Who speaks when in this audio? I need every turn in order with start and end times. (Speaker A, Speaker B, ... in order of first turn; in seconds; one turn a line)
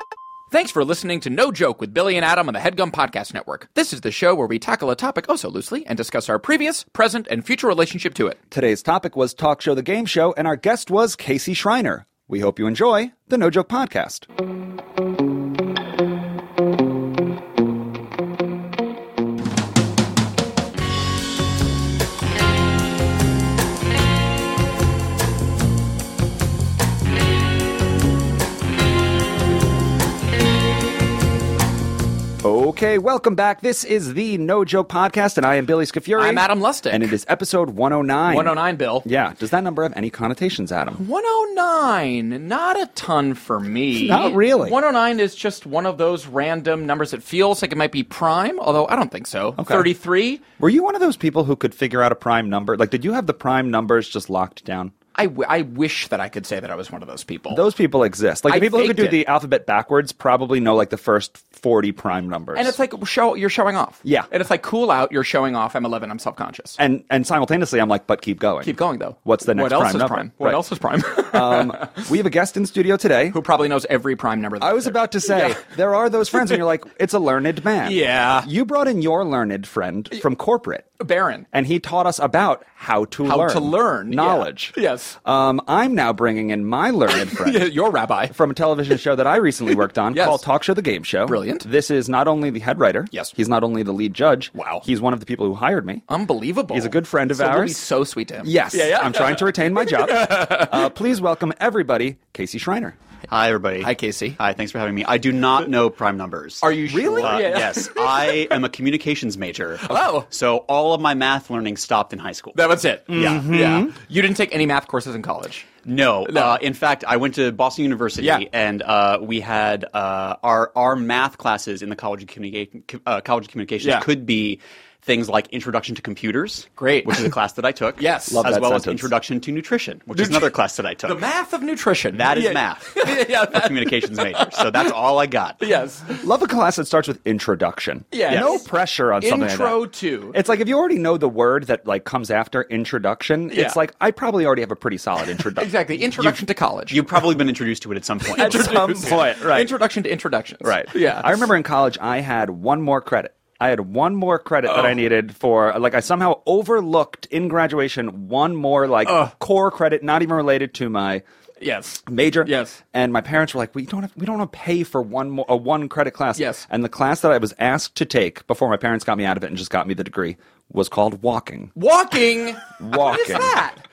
Speaker A: 0.5-8.4
Speaker B: 8.5-14.3
Speaker B: 32.4-41.0
Speaker A: 36.2-37.1
Speaker A: 38.3-39.1
Speaker A: 41.0-50.4
Speaker B: 43.9-44.8
Speaker B: 49.6-49.9
Speaker B: 50.6-54.9
Speaker A: 55.1-57.6
Speaker B: 57.5-62.8
Speaker A: 58.5-59.2
Speaker A: 62.5-66.8
Speaker B: 64.0-64.3
Speaker B: 66.8-70.6
Speaker A: 68.6-72.1
Speaker B: 71.2-73.4
Speaker A: 73.3-75.7
Speaker B: 74.6-80.9
Speaker A: 77.8-78.5
Speaker A: 81.0-81.5
Speaker B: 81.5-87.7
Speaker A: 83.2-85.2
Speaker A: 87.2-88.3
Speaker B: 88.3-96.0
Speaker A: 90.1-90.4
Speaker A: 91.2-91.7
Speaker A: 94.5-94.8
Speaker A: 96.1-100.9
Speaker B: 96.7-97.8
Speaker B: 98.4-103.0
Speaker C: 103.3-113.4
Speaker A: 103.8-104.4
Speaker A: 106.6-108.6
Speaker B: 106.9-107.6
Speaker A: 109.9-110.3
Speaker A: 112.5-115.7
Speaker B: 113.1-113.9
Speaker C: 115.8-131.2
Speaker A: 116.3-116.6
Speaker A: 123.8-124.1
Speaker A: 126.8-127.3
Speaker A: 128.0-128.5
Speaker B: 128.3-129.1
Speaker A: 130.1-130.5
Speaker A: 131.1-134.9
Speaker C: 132.2-135.6
Speaker A: 135.6-136.2
Speaker B: 136.2-146.4
Speaker A: 138.1-140.4
Speaker A: 143.5-143.8
Speaker A: 145.4-147.1
Speaker C: 146.9-149.0
Speaker A: 148.3-151.4
Speaker B: 148.3-149.8
Speaker B: 150.6-161.2
Speaker A: 159.1-159.3
Speaker A: 161.6-162.8
Speaker B: 162.1-171.7
Speaker A: 166.4-166.6
Speaker A: 171.8-173.8
Speaker B: 172.8-173.6